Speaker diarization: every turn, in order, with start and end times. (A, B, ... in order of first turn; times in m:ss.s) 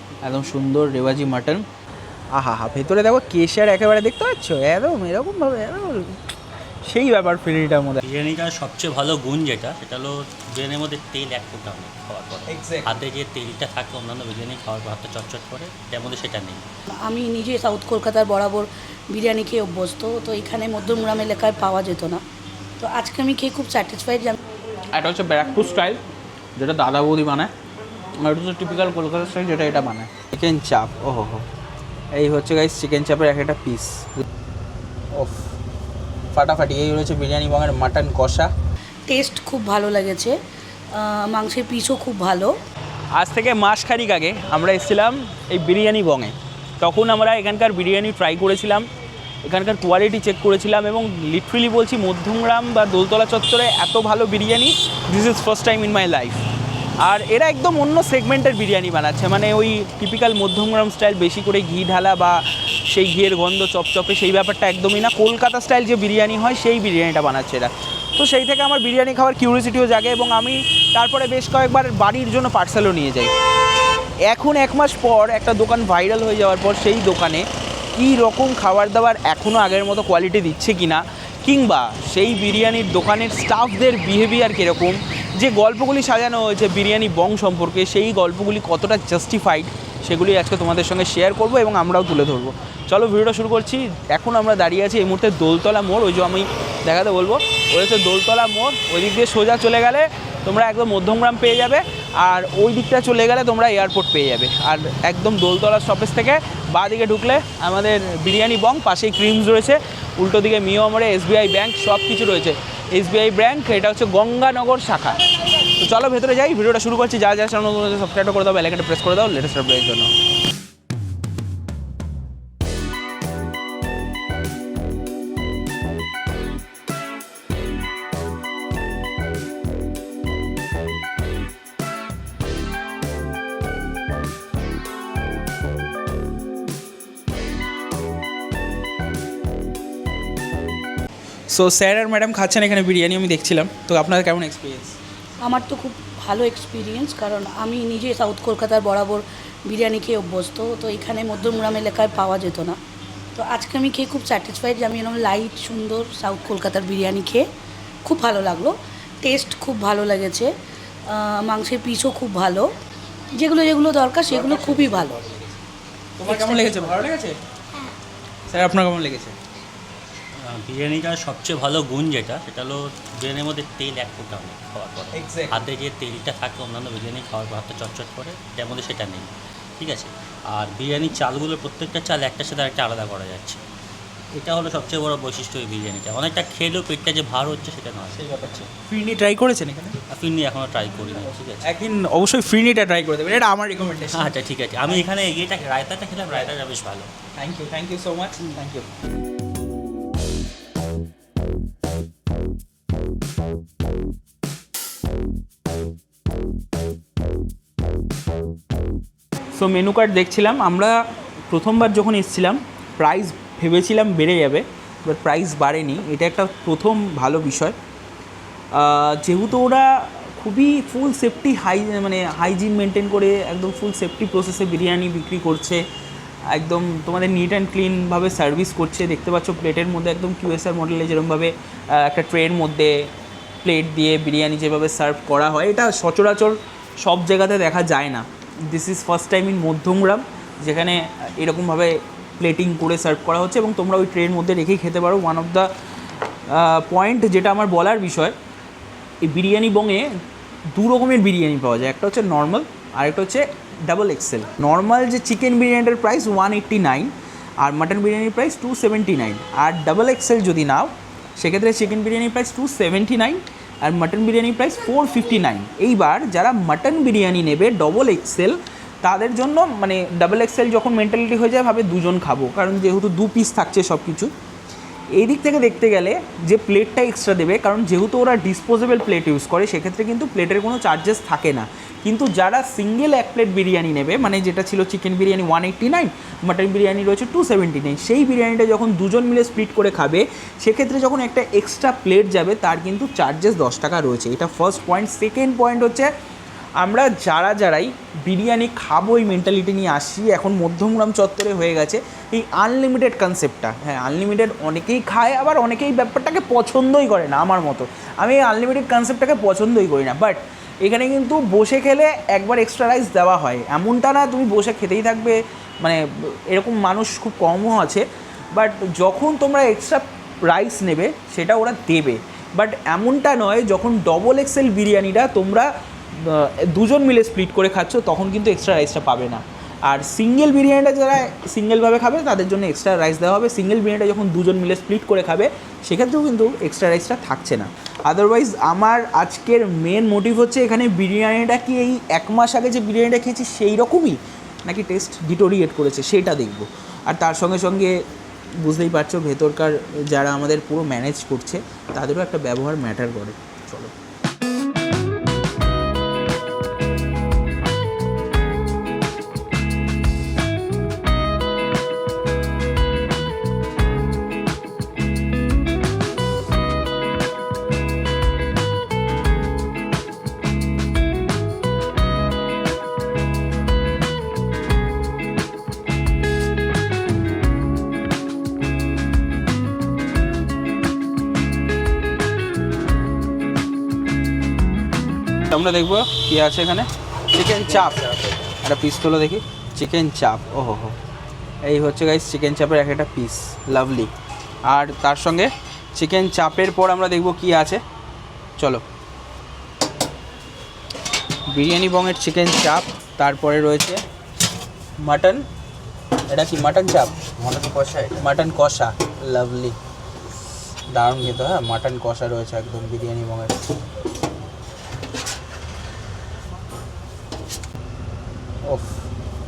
0:00.2-0:01.6 A
0:02.3-0:06.2 A
0:06.8-0:08.0 A
0:08.0-0:16.6 B
0:12.5-0:12.9 A
0:17.0-0:22.2 C
0:22.8-0:24.4 C
0:24.9-0:26.0 A
0:26.6-0:27.5 A
0:28.2-0:31.5 A
0:32.1-0:34.2 A
0:35.1-0:35.5 A
0:36.3-0:38.5 A
0:39.1-0:40.3 C
0:40.9-0:42.5 C
0:43.2-0:48.9 A
0:49.4-0:56.4 A
0:57.0-1:13.3 A
1:14.3-2:00.1 A
2:21.5-2:25.0 A
2:25.4-2:32.8 C
2:33.4-2:37.4 C
2:38.0-2:40.5 C
2:41.0-2:42.7 C
2:43.3-2:45.2 C
2:44.3-2:45.6 A
2:46.2-2:47.4 A
2:46.3-2:46.9 C
2:48.5-2:49.4 A
2:50.4-3:03.6 B
2:55.1-2:55.7 A
3:04.3-3:08.2 B
3:08.1-3:10.0 A
3:10.1-3:11.6 B
3:11.6-3:14.4 A
3:14.1-3:17.1 B
3:17.3-3:18.9 A
3:29.5-3:37.8 A
3:38.7-3:45.8 A
3:46.5-3:53.1 A
3:53.6-4:05.7 A
4:06.5-4:08.3 A
4:09.2-4:10.2 A
4:10.7-4:34.3 A
4:35.1-4:56.1 A
4:56.8-5:48.0 A
5:48.6-5:53.9 A
6:25.5-6:31.0 A
6:31.6-6:34.1 A
6:34.7-6:37.8 A
6:38.6-6:38.8 A
6:41.5-6:44.0 A
6:45.0-6:45.4 A
6:46.3-6:49.8 A
6:50.9-6:53.6 A
6:58.7-6:59.0 A